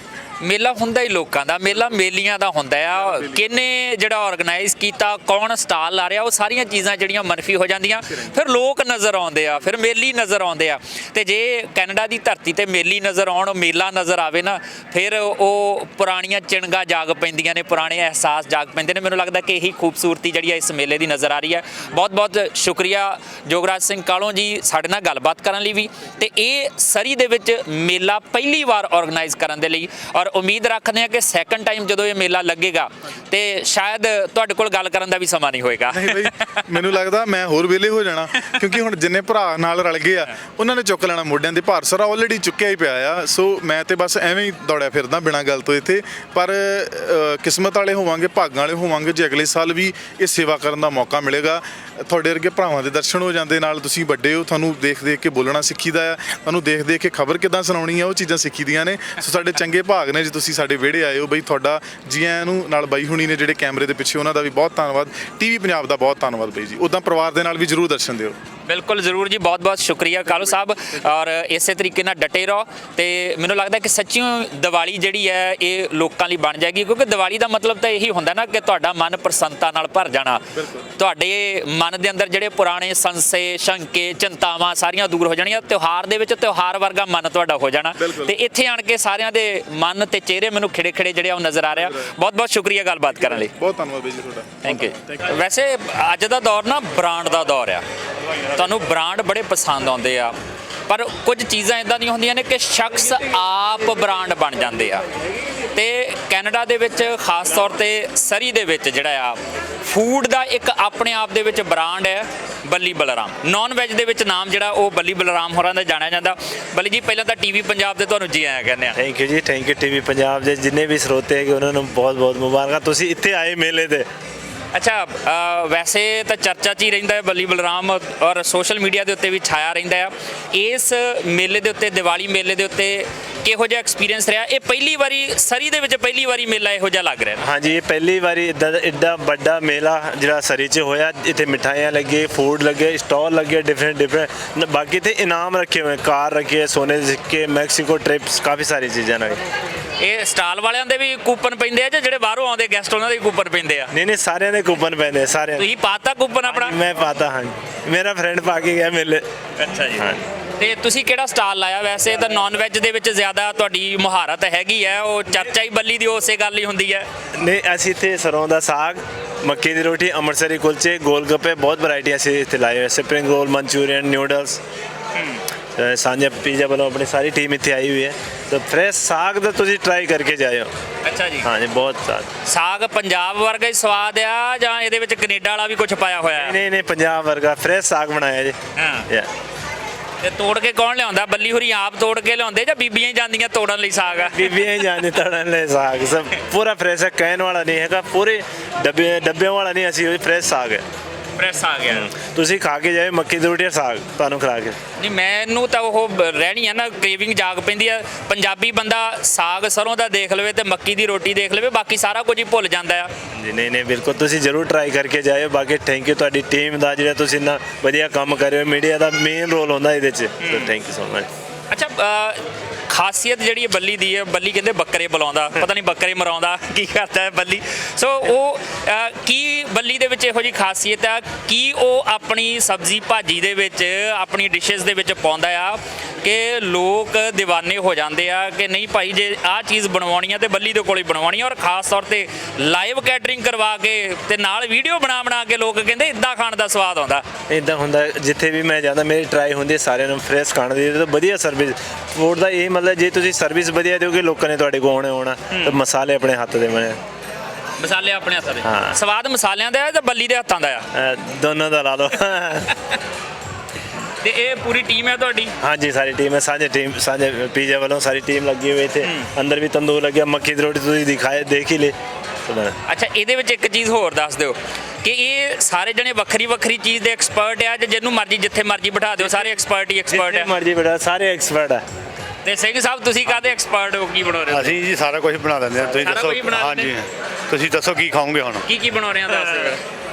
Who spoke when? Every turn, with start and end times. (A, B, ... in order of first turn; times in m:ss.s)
0:00.4-0:36.6 A
0:35.9-1:08.4 B
1:08.7-1:20.4 A
1:20.6-1:20.8 B
1:21.0-1:33.5 A
1:28.0-1:28.3 B
1:33.1-1:35.4 B
1:34.6-1:37.8 A
1:38.5-1:40.4 A
1:40.9-1:45.0 A
1:45.7-1:59.0 A
1:59.0-2:04.1 C
2:04.7-2:17.4 A
2:17.4-2:29.4 C
2:30.0-2:33.9 A
2:33.9-2:35.6 C
2:35.6-2:36.8 A
2:36.5-2:39.2 C
2:39.6-2:40.1 A
2:40.0-2:40.2 C
2:40.6-2:47.1 A
2:47.4-2:54.6 C
2:55.7-3:00.7 C
3:01.0-3:01.5 A
3:01.4-3:02.3 C
3:02.4-3:06.6 A
3:06.3-3:08.6 C
3:08.8-3:09.1 A
3:10.2-3:14.7 A
3:14.3-3:20.8 C
3:21.4-3:22.1 A
3:21.9-3:24.8 C
3:25.0-3:33.1 A
3:33.3-3:41.3 C
3:40.4-3:40.7 A
3:41.7-4:07.2 A
4:07.5-4:17.0 C
4:15.5-4:15.8 A
4:17.8-4:20.9 A
4:18.6-4:19.0 C
4:20.9-4:22.7 C
4:24.2-4:25.5 A
4:25.6-4:32.8 C
4:29.0-4:29.3 A
4:32.9-4:40.5 A
4:39.2-4:39.5 C
4:40.1-4:41.8 C
4:42.4-4:44.8 A
4:44.5-4:48.6 D
4:46.0-4:46.9 A
4:48.6-4:49.8 A